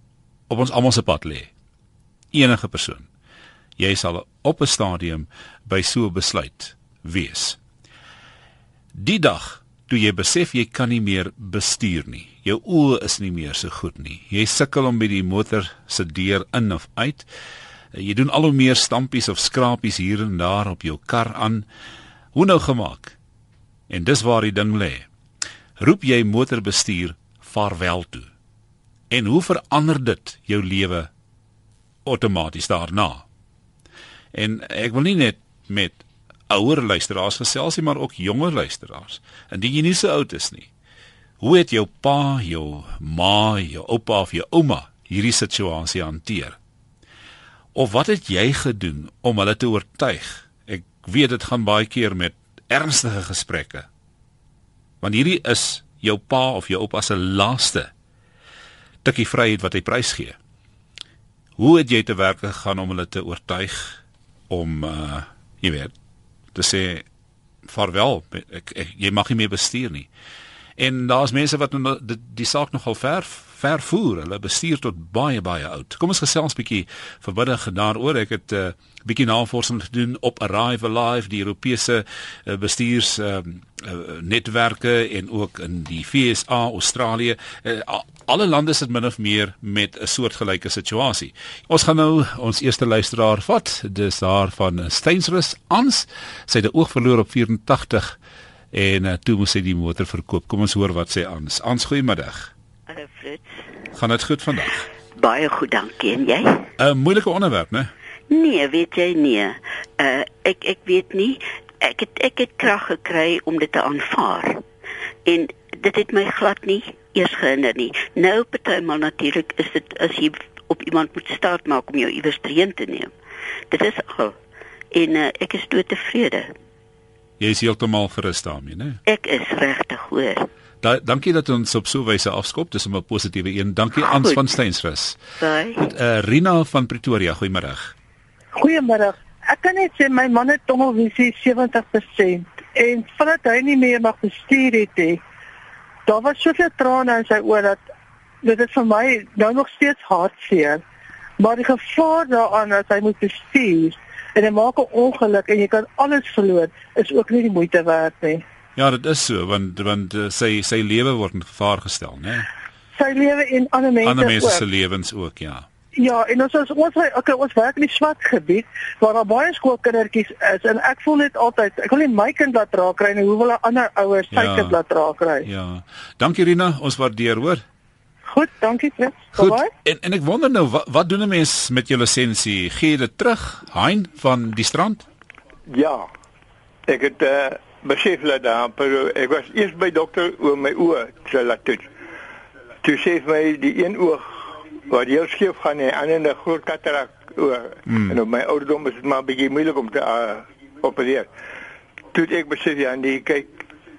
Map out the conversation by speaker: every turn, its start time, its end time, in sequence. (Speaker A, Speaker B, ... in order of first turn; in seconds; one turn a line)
Speaker A: 0.5-1.5
Speaker A: 2.3-3.1
Speaker A: 3.8-7.6
Speaker A: 8.9-17.2
Speaker A: 17.9-21.6
Speaker A: 22.3-23.1
Speaker A: 23.9-25.1
Speaker A: 25.8-28.3
Speaker A: 29.1-31.1
Speaker A: 32.0-33.2
Speaker A: 34.3-40.7
Speaker A: 41.4-46.6
Speaker A: 47.7-53.9
Speaker A: 55.0-57.9
Speaker A: 59.0-60.4
Speaker A: 61.6-65.9
Speaker A: 66.5-67.0
Speaker A: 67.7-70.1
Speaker A: 70.8-98.2
Speaker A: 98.7-102.5
Speaker B: 102.9-103.7
Speaker A: 103.9-104.8
Speaker B: 105.2-106.7
Speaker A: 106.8-107.9
Speaker B: 108.3-114.6
Speaker B: 115.2-123.1
Speaker B: 123.7-124.3
Speaker B: 124.9-126.5
Speaker A: 127.4-129.0
Speaker B: 129.1-130.5
Speaker A: 130.8-135.2
Speaker B: 133.9-134.5
Speaker B: 135.4-135.9
Speaker A: 135.8-137.9
Speaker C: 138.6-145.2
Speaker C: 146.1-147.8
Speaker C: 148.4-150.8
Speaker C: 151.4-158.4
Speaker A: 158.8-162.4
Speaker C: 162.9-164.6
Speaker A: 164.0-165.6
Speaker C: 166.0-175.5
Speaker A: 174.3-174.8
Speaker A: 175.4-177.6
Speaker C: 178.2-179.7
Speaker A: 179.3-185.0
Speaker D: 185.7-186.1
Speaker D: 186.9-191.9
Speaker D: 192.8-201.3
Speaker A: 197.9-198.2
Speaker D: 202.1-203.5